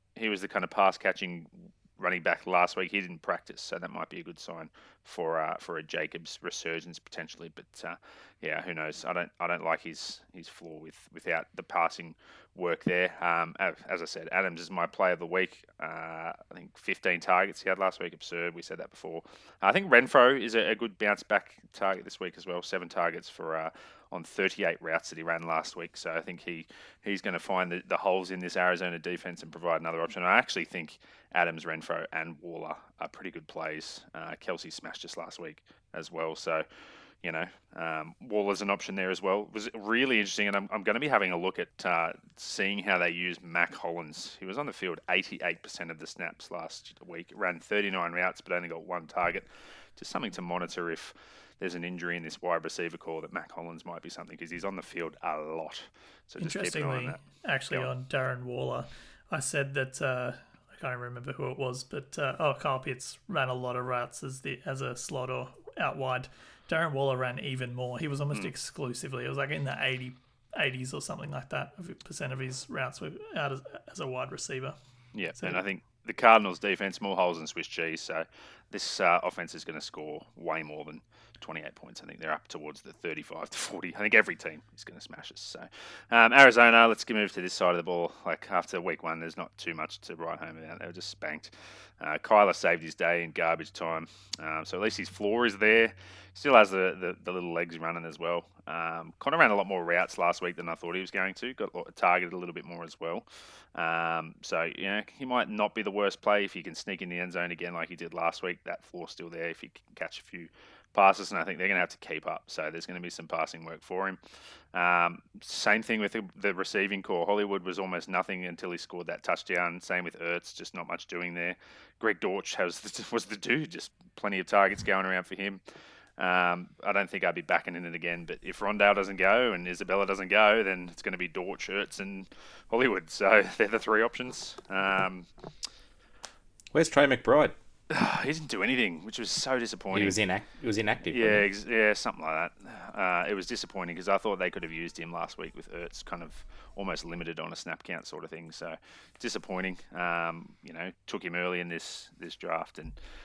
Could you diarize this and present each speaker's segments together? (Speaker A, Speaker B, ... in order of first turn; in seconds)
Speaker A: 0.1-36.6, 37.2-57.9, 75.1-114.2, 114.7-125.6, 126.2-135.3, 137.9-140.2, 141.1-152.9
Speaker B: 56.4-74.8, 75.3-75.6
Speaker C: 136.7-137.5, 139.9-141.5